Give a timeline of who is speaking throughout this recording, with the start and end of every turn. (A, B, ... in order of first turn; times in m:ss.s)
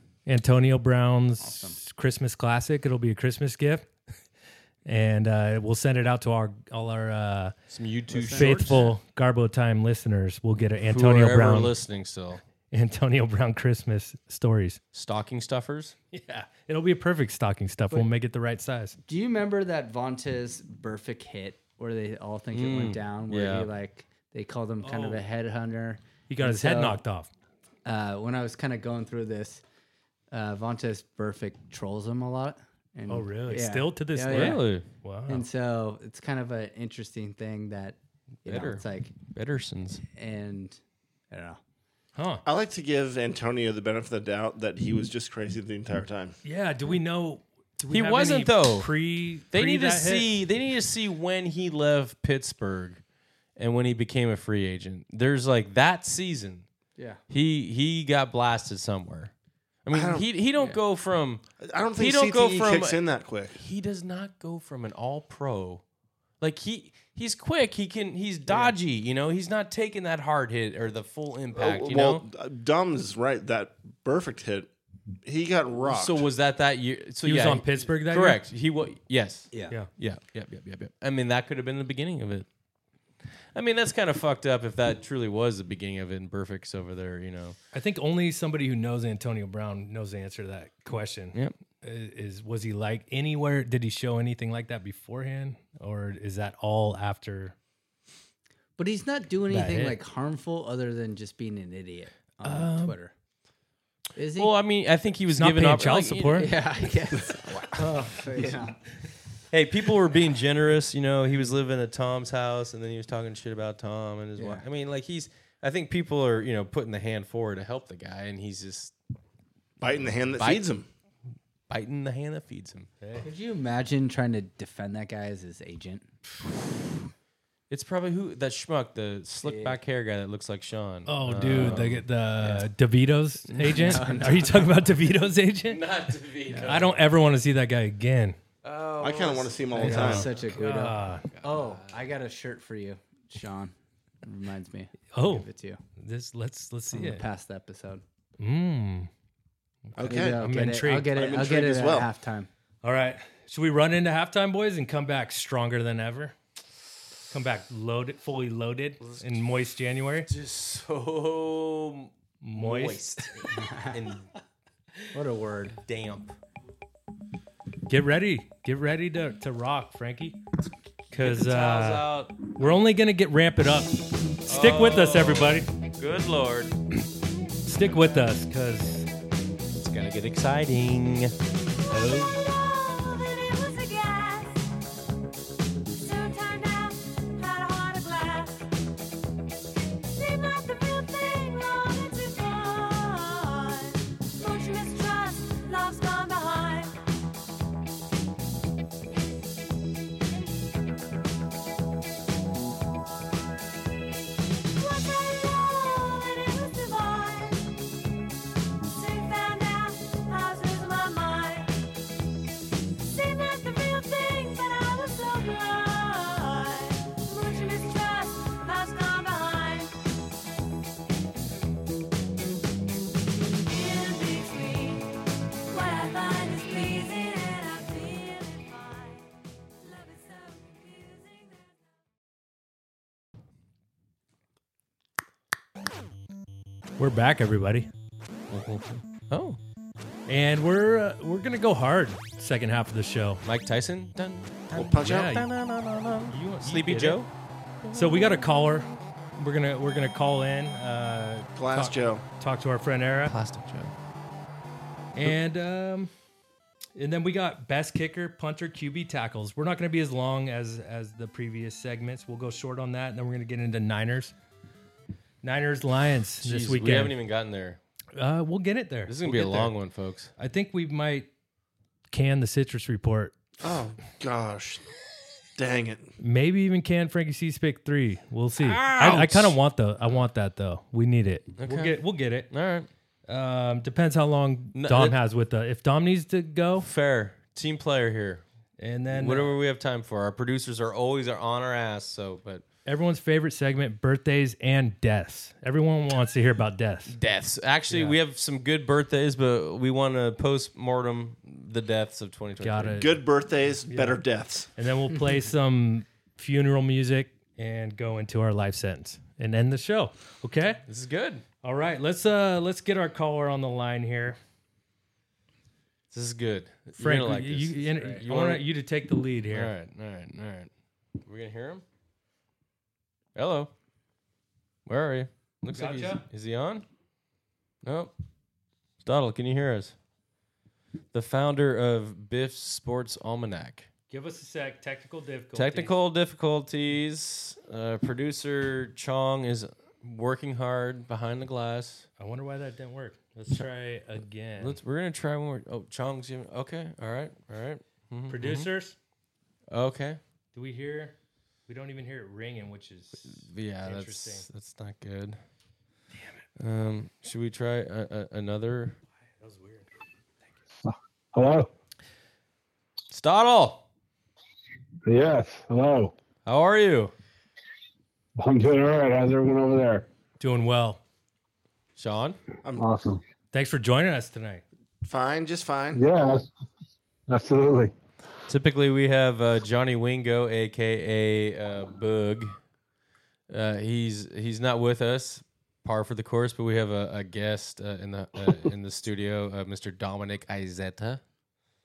0:00.2-0:03.9 A
0:01.4-0:01.8 B
0:04.8-0:07.5 A
0:07.7-0:08.9 C
0:08.1-0:08.9 B
0:08.3-0:11.7 A
0:10.8-0:12.4 C
0:12.7-0:14.8 A
0:14.9-0:15.9 C
0:16.1-0:19.0 A
0:19.0-0:27.0 B
0:22.5-0:23.7 C
0:24.8-0:25.2 A
0:26.3-0:27.3 A
0:27.8-0:29.6 B
0:30.3-0:34.6 B
0:33.1-0:35.4 A
0:34.3-0:34.8 C
0:35.3-0:39.1 B
0:38.4-0:40.0 C
0:40.1-0:40.8 B
0:41.3-0:41.6 B
0:42.2-0:42.4 A
0:42.4-0:46.3 D
0:46.4-0:50.3 A
0:47.9-0:48.9 C
0:49.5-0:53.0 C
0:53.6-0:56.7 C
0:57.0-0:57.2 B
0:57.3-0:59.3 C
0:59.8-1:01.4 C
0:59.9-1:00.3 D
1:01.6-1:03.6 D
1:02.0-1:03.0 C
1:03.5-1:05.8 C
1:06.4-1:12.2 C
1:08.5-1:08.7 B
1:11.5-1:14.7 D
1:15.2-1:16.2 D
1:15.8-1:22.5 C
1:17.2-1:18.4 A
1:19.5-1:19.8 B
1:23.5-1:27.6 C
1:27.7-1:37.5 A
1:38.8-1:43.1 B
1:39.5-1:40.0 A
1:42.4-1:42.9 A
1:44.2-1:44.5 B
1:44.4-1:46.5 C
1:45.3-1:46.5 A
1:46.3-1:48.9 B
1:49.5-1:58.9 C
1:54.4-1:54.6 B
1:59.8-2:00.9 D
2:00.4-2:00.6 C
2:01.7-2:02.9 C
2:03.0-2:03.2 A
2:03.2-2:06.1 B
2:07.7-2:12.0 C
2:09.4-2:09.8 B
2:11.1-2:15.8 A
2:11.4-2:11.8 B
2:12.4-2:12.6 B
2:13.5-2:13.9 C
2:13.7-2:14.8 B
2:15.7-2:17.0 C
2:16.5-2:16.8 B
2:16.6-2:18.4 A
2:18.6-2:20.5 C
2:19.0-2:20.3 D
2:19.7-2:25.8 B
2:19.8-2:21.2 A
2:21.3-2:22.0 C
2:25.1-2:25.4 A
2:26.0-2:27.2 A
2:26.9-2:28.0 B
2:28.4-2:29.1 A
2:29.9-2:31.1 A
2:30.0-2:30.4 D
2:30.0-2:32.5 B
2:31.1-2:32.1 D
2:32.8-2:36.3 A
2:37.3-2:40.3 A
2:39.0-2:39.3 C
2:40.3-2:44.3 C
2:42.4-2:43.3 A
2:43.5-2:44.0 B
2:45.1-2:45.8 B
2:45.8-2:46.4 C
2:47.9-2:50.4 A
2:51.1-2:52.7 C
2:51.1-2:55.7 A
2:54.5-2:56.7 C
2:57.6-2:59.1 A
2:59.8-3:01.3 C
3:01.9-3:02.4 A
3:01.9-3:04.7 E
3:06.0-3:08.7 E
3:10.0-3:17.0 E
3:20.3-3:20.6 E
3:24.7-3:27.7 E
3:28.9-3:31.8 E
3:33.0-3:39.9 E
3:43.6-3:45.1 E
3:45.7-3:51.8 E
3:57.0-3:57.9 A
3:58.5-3:59.6 C
4:00.3-4:03.4 A
4:03.4-4:07.3 C
4:04.7-4:05.4 D
4:05.0-4:05.4 A
4:06.3-4:07.2 A
4:07.9-4:13.3 A
4:11.6-4:12.2 D
4:13.2-4:13.9 C
4:15.1-4:16.1 A
4:17.0-4:24.3 A
4:25.4-4:27.2 A
4:26.4-4:27.8 C
4:28.1-4:29.7 A
4:29.1-4:30.3 C
4:30.4-4:31.3 A
4:32.1-4:33.3 A
4:33.6-4:34.8 D
4:35.6-4:36.1 D
4:36.2-4:42.5 A
4:38.6-4:39.6 C
4:41.6-4:42.9 C
4:43.3-4:46.9 A
4:44.7-4:45.2 C
4:46.8-4:48.4 C
4:48.8-4:49.5 A
4:49.1-4:52.6 C
4:52.8-4:57.1 A
4:57.1-5:03.0 C
4:57.9-4:58.2 A
5:02.6-5:03.1 A
5:03.0-5:04.7 D
5:03.9-5:04.2 A
5:04.8-5:10.8 A
5:10.9-5:11.4 C
5:11.6-5:14.4 A
5:16.1-5:18.6 C
5:17.0-5:19.7 A
5:19.5-5:20.7 C
5:21.2-5:21.8 C
5:23.3-5:23.7 C
5:24.8-5:26.8 C
5:25.7-5:26.2 A
5:27.8-5:28.1 C
5:29.0-5:29.9 C
5:31.1-5:33.9 C
5:34.1-5:35.9 A
5:35.5-5:42.1 C
5:42.2-5:44.8 A
5:44.6-5:48.7 C
5:48.3-5:49.0 A
5:49.7-5:50.2 C
5:50.5-5:51.1 A
5:51.7-5:54.4 A
5:53.3-5:55.4 C
5:56.6-5:59.0 C
5:59.4-5:59.9 A
6:00.9-6:01.7 F
6:03.1-6:03.8 C
6:05.0-6:06.1 F
6:06.4-6:07.1 C
6:08.4-6:10.0 F
6:10.4-6:11.0 A
6:12.0-6:12.4 C
6:12.8-6:13.2 F
6:13.5-6:14.6 A
6:15.0-6:16.0 D
6:15.9-6:16.4 F
6:17.3-6:17.9 F
6:18.5-6:22.6 C
6:23.5-6:31.2 C